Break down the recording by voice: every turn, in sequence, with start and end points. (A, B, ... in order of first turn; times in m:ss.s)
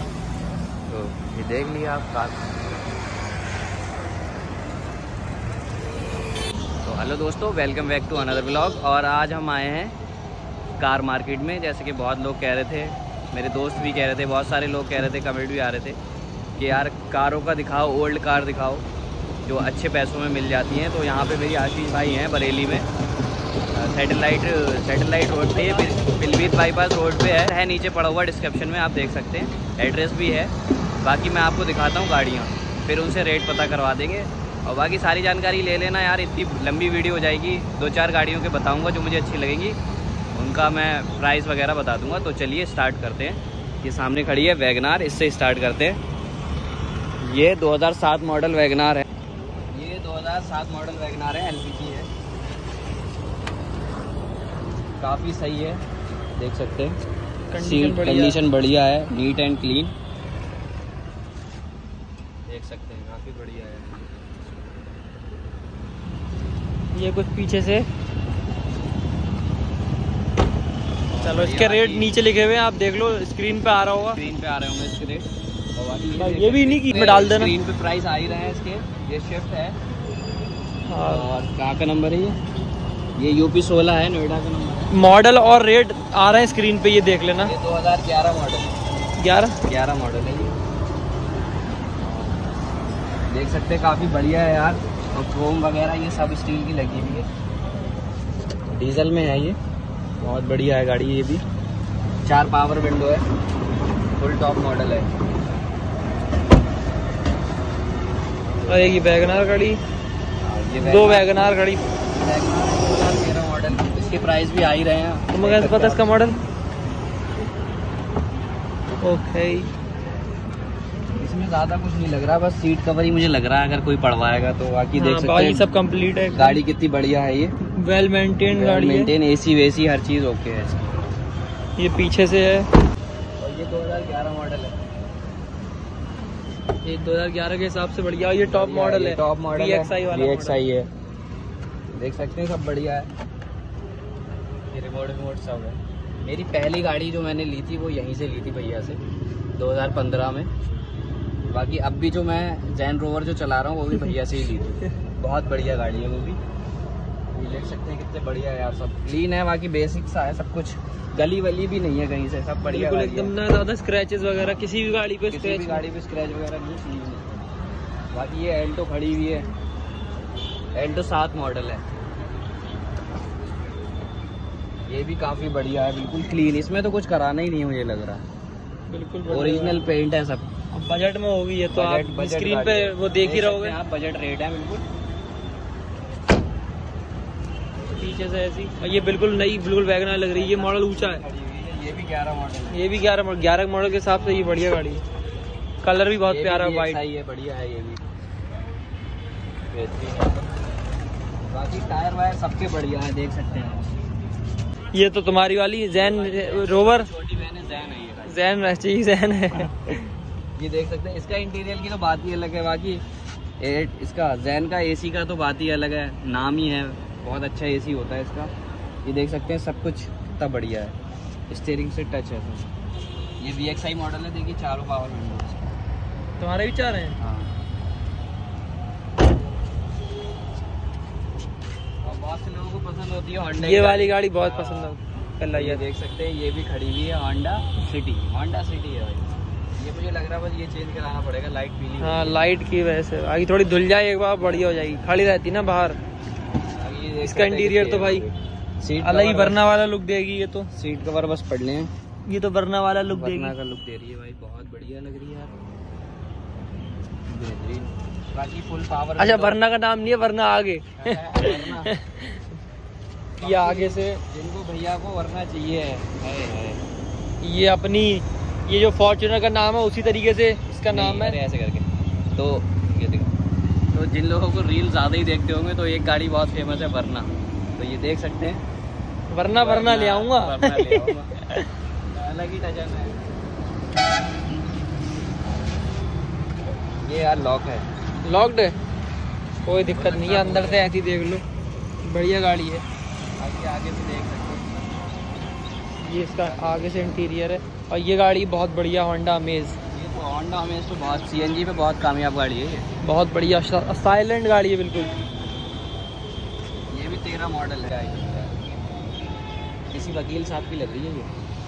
0:00.9-0:02.7 A
0:06.8-0:10.0 A
0:10.8-0:16.0 A
0:16.6-0:18.8 A
0:19.4-0:22.9 A
0:23.7-0:39.8 A
0:25.6-0:26.6 B
0:40.4-0:46.0 A
0:47.2-0:49.0 A
0:49.7-0:52.1 A
0:55.0-0:55.8 A
0:56.4-0:57.0 A
0:57.5-0:58.4 B
0:57.6-0:59.9 A
1:02.5-1:04.2 A
1:06.9-1:07.9 B
1:11.1-1:12.1 A
1:11.2-1:14.2 B
1:14.1-1:19.8 A
1:16.2-1:17.5 B
1:20.9-1:21.3 B
1:21.0-1:22.4 A
1:23.2-1:24.9 A
1:24.9-1:27.5 B
1:27.4-1:28.7 A
1:29.2-1:29.6 B
1:29.6-1:30.5 A
1:32.0-1:32.4 A
1:33.3-1:37.3 A
1:38.7-1:39.6 A
1:40.2-1:41.4 A
1:42.2-1:43.3 A
1:44.2-1:45.1 A
1:48.6-1:49.2 A
1:48.7-1:49.8 B
1:50.4-1:51.4 A
1:50.8-1:51.8 B
1:52.1-1:56.2 A
1:55.3-1:56.4 B
1:59.0-1:59.7 B
2:01.2-2:05.7 A
2:05.0-2:06.6 B
2:06.3-2:07.5 A
2:07.8-2:09.1 B
2:08.5-2:11.0 A
2:11.8-2:12.7 B
2:13.4-2:14.8 A
2:16.8-2:20.6 B
2:18.4-2:20.9 A
2:21.9-2:23.1 A
2:24.7-2:29.0 A
2:29.6-2:30.5 A
2:31.5-2:36.4 A
2:37.3-2:43.3 A
2:42.6-2:45.9 B
2:45.3-2:47.4 A
2:48.1-2:49.5 A
2:50.8-2:51.8 A
2:54.9-2:58.2 A
2:58.9-2:59.9 B
2:59.3-3:00.5 A
3:00.7-3:03.7 B
3:01.7-3:04.9 A
3:08.0-3:11.2 B
3:08.9-3:09.5 A
3:10.2-3:12.9 A
3:12.7-3:15.0 B
3:15.8-3:17.0 B
3:16.2-3:18.0 A
3:19.7-3:20.5 A
3:21.5-3:23.9 A
3:24.9-3:27.1 B
3:25.9-3:28.7 A
3:28.3-3:30.1 B
3:30.6-3:33.0 A
3:33.6-3:38.5 A
3:39.0-3:41.0 A
3:41.5-3:42.7 A
3:43.4-3:45.8 A
3:46.4-3:47.2 B
3:47.2-3:47.5 A
3:52.0-3:55.0 A
3:53.6-3:55.8 B
3:55.5-4:02.4 A
4:02.0-4:06.0 B
4:03.6-4:05.1 A
4:06.7-4:09.6 A
4:07.2-4:08.3 B
4:09.0-4:10.7 B
4:10.7-4:11.9 A
4:12.3-4:13.5 B
4:13.1-4:15.6 A
4:17.3-4:19.6 A
4:19.2-4:22.4 B
4:21.0-4:21.9 A
4:23.4-4:26.8 A
4:23.4-4:24.2 B
4:27.4-4:31.4 B
4:30.9-4:33.3 A
4:33.9-4:38.6 A
4:39.3-4:41.6 B
4:39.5-4:41.4 A
4:42.1-4:43.2 A
4:47.0-4:47.9 A
4:48.2-4:48.8 B
4:49.6-4:51.4 B
4:49.8-4:50.9 A
4:52.0-4:52.8 B
4:53.4-4:54.8 A
4:56.0-4:59.8 B
4:56.3-4:57.2 A
4:59.9-5:02.9 A
5:03.0-5:05.1 B
5:06.9-5:08.6 A
5:09.9-5:11.3 A